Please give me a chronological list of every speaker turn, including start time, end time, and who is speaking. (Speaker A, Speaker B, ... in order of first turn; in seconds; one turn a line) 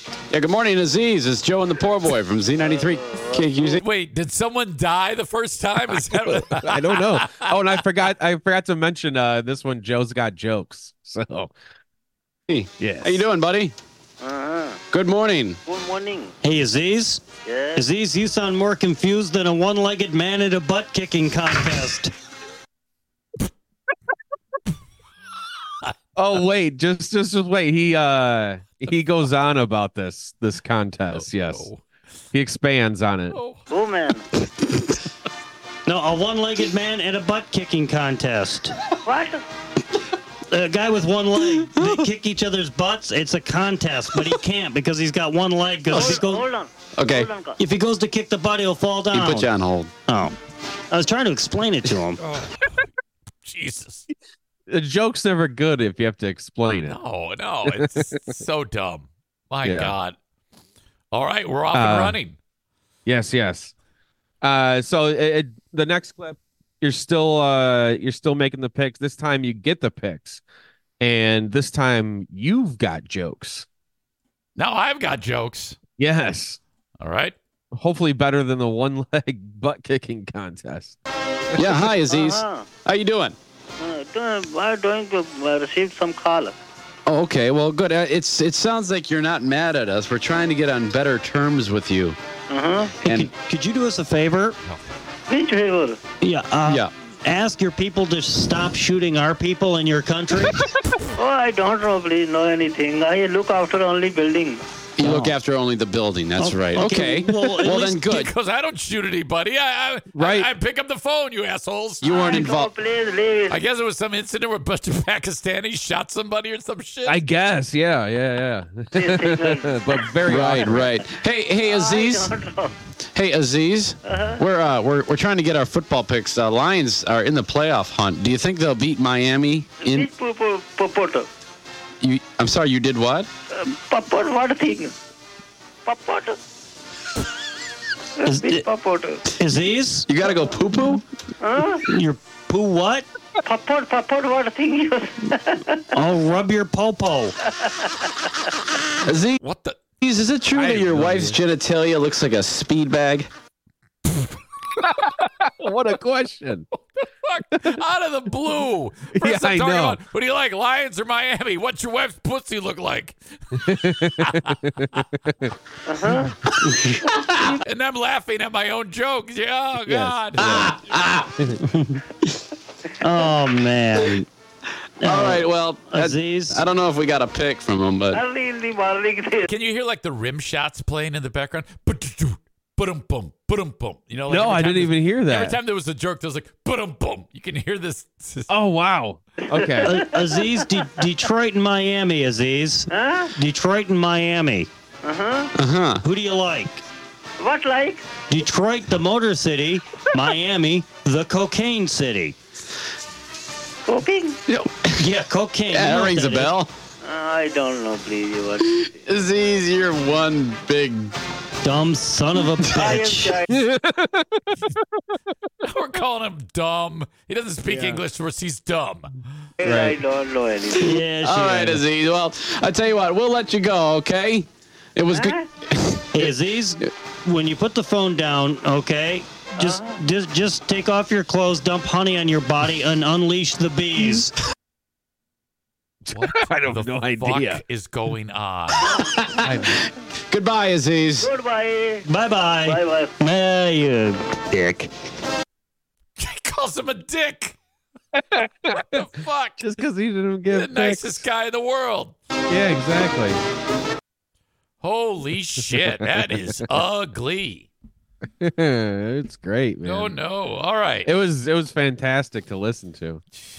Speaker A: 0.3-3.8
Speaker B: 2.6-3.8
Speaker C: 3.6-7.5
Speaker D: 6.2-11.5
Speaker A: 12.5-13.8
Speaker D: 12.8-13.2
Speaker B: 14.2-14.8
Speaker A: 14.9-15.6
Speaker B: 15.7-16.3
Speaker E: 16.4-17.2
Speaker B: 17.4-17.9
Speaker E: 17.8-22.1
Speaker D: 26.1-31.7
Speaker C: 31.1-31.8
Speaker D: 32.3-33.4
Speaker C: 33.3-33.6
Speaker B: 33.7-34.2
Speaker E: 35.9-38.8
Speaker B: 39.0-39.4
Speaker E: 40.5-46.4
Speaker B: 45.9-47.6
Speaker A: 47.0-47.3
Speaker E: 47.6-49.5
Speaker A: 49.1-49.9
Speaker E: 50.1-50.4
Speaker E: 50.9-52.2
Speaker C: 52.3-52.9
Speaker C: 53.4-54.1
Speaker D: 54.7-57.0
Speaker C: 56.9-60.2
Speaker D: 57.7-58.2
Speaker D: 59.6-59.9
Speaker C: 61.1-62.4
Speaker D: 61.7-62.2
Speaker D: 63.1-63.7
Speaker D: 64.4-70.4
Speaker D: 71.0-73.7
Speaker C: 74.6-75.8
Speaker D: 76.0-76.6
Speaker C: 77.0-77.3
Speaker D: 77.7-81.0
Speaker A: 81.5-83.4
Speaker B: 82.1-82.7
Speaker B: 83.8-86.6
Speaker A: 87.1-92.2
Speaker B: 92.5-93.0
Speaker A: 93.0-93.3
Speaker E: 93.0-94.6
Speaker B: 95.3-96.0
Speaker E: 96.2-100.7
Speaker A: 96.6-96.9
Speaker B: 101.1-104.6
Speaker A: 105.0-108.3
Speaker E: 105.0-105.4
Speaker E: 106.4-107.9
Speaker C: 107.6-112.4
Speaker D: 110.1-110.5
Speaker A: 112.0-112.7
Speaker B: 112.0-113.6
Speaker C: 113.5-117.2
Speaker D: 117.1-121.0
Speaker B: 118.9-120.0
Speaker A: 120.3-122.3
Speaker B: 121.6-122.8
Speaker A: 123.1-130.1
Speaker B: 124.1-124.4
Speaker B: 129.8-131.3
Speaker A: 132.0-133.3
Speaker B: 133.5-134.9
Speaker B: 135.9-136.4
Speaker B: 138.2-139.2
Speaker E: 138.2-138.6
Speaker E: 139.4-140.1
Speaker A: 140.1-141.0
Speaker B: 141.4-141.9
Speaker E: 141.8-143.1
Speaker B: 143.4-145.8
Speaker E: 145.9-147.4
Speaker A: 149.0-149.4
Speaker C: 149.4-149.8
Speaker A: 150.0-153.3
Speaker D: 150.5-151.4
Speaker D: 154.8-156.7
Speaker C: 156.9-165.1
Speaker D: 159.1-160.0
Speaker D: 163.5-165.5
Speaker B: 165.9-166.3
Speaker A: 166.5-167.4
Speaker E: 166.7-167.0
Speaker C: 167.4-170.7
Speaker D: 169.8-170.8
Speaker A: 170.4-171.3
Speaker E: 171.6-172.0
Speaker E: 173.0-174.2
Speaker E: 175.0-176.6
Speaker A: 175.0-178.2
Speaker B: 178.1-179.5
Speaker C: 179.5-188.5
Speaker D: 184.3-185.6
Speaker D: 188.5-190.0
Speaker B: 189.5-191.1
Speaker E: 189.8-194.7
Speaker B: 192.9-193.3
Speaker B: 195.0-195.5
Speaker A: 195.6-196.0
Speaker E: 196.0-196.8
Speaker B: 197.4-198.1
Speaker E: 198.3-202.3
Speaker B: 203.9-204.4
Speaker A: 204.5-205.1
Speaker E: 204.9-206.5
Speaker A: 205.7-206.7
Speaker B: 207.0-208.9
Speaker A: 208.6-211.2
Speaker E: 211.6-213.3
Speaker B: 212.6-213.6
Speaker D: 213.5-215.5
Speaker C: 215.6-219.1
Speaker D: 217.7-218.0
Speaker B: 219.6-221.1
Speaker D: 219.6-220.0
Speaker A: 220.7-226.9
Speaker E: 220.8-221.8
Speaker B: 225.1-225.5
Speaker E: 226.1-234.3
Speaker B: 229.6-230.0
Speaker D: 236.1-237.6
Speaker C: 236.1-239.0
Speaker A: 239.2-239.5
Speaker D: 239.4-239.8
Speaker A: 240.3-241.3
Speaker B: 241.2-243.2
Speaker E: 242.1-244.8
Speaker C: 246.2-247.6
Speaker D: 248.2-249.0
Speaker C: 248.7-249.6
Speaker D: 249.6-251.2
Speaker C: 250.5-252.2
Speaker D: 252.5-253.4
Speaker C: 254.8-257.7
Speaker D: 258.4-260.1
Speaker C: 259.8-261.1
Speaker D: 261.1-263.2